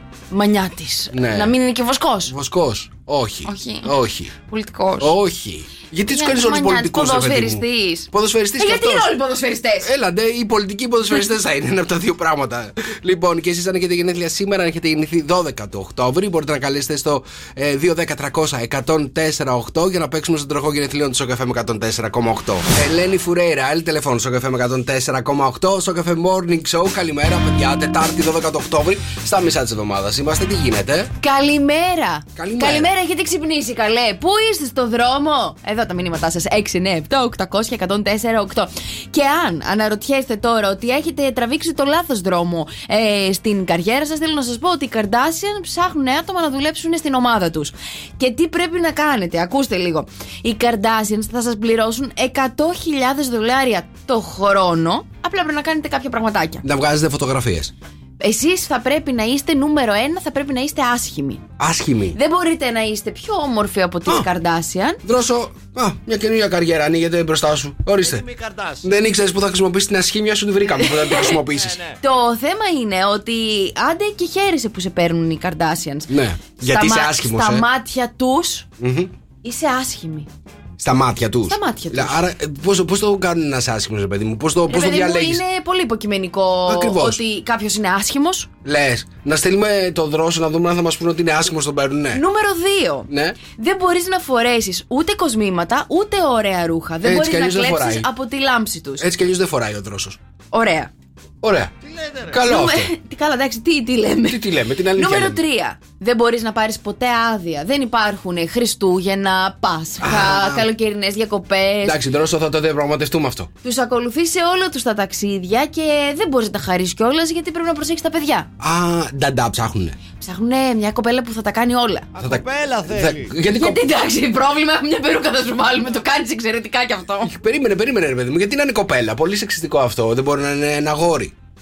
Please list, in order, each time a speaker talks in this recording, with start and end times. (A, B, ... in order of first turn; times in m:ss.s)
0:00.3-0:02.3 A
0:01.1-0:01.6 B
0:02.3-0:04.3 B
0:03.5-0:03.9 A
0:04.4-0:05.1 A
0:05.0-0:09.1 B
0:06.1-0:09.9 A
0:09.8-0:31.1 B
0:31.2-0:56.6 A
0:32.4-0:32.9 B
0:56.6-0:57.7 B
0:58.2-1:01.4 A
1:01.6-1:02.2 B
1:02.1-1:05.0 A
1:05.0-1:08.3 B
1:08.0-1:08.9 C
1:08.8-1:11.8 B
1:10.7-1:11.4 A
1:11.5-1:12.0 C
1:12.0-1:16.1 A
1:16.1-1:17.7 B
1:16.6-1:18.7 A
1:18.8-1:19.1 B
1:19.4-1:20.3 A
1:20.8-1:25.4 B
1:21.5-1:22.2 A
1:24.7-1:28.5 A
1:26.7-1:27.2 B
1:28.6-1:32.2 B
1:32.1-1:39.1 A
1:33.1-1:33.4 B
1:37.0-1:38.1 B
1:39.0-1:40.2 B
1:40.5-1:40.9 A
1:41.4-1:41.7 B
1:41.8-1:42.4 C
1:42.3-1:42.9 B
1:42.4-1:44.4 A
1:44.2-1:45.4 B
1:45.0-1:52.0 A
1:50.0-1:50.7 B
1:51.8-1:53.5 B
1:53.6-1:58.5 A
1:58.6-2:00.0 B
2:00.2-2:02.1 A
2:02.2-2:03.3 C
2:02.2-2:03.9 B
2:03.5-2:07.3 A
2:07.2-2:11.3 B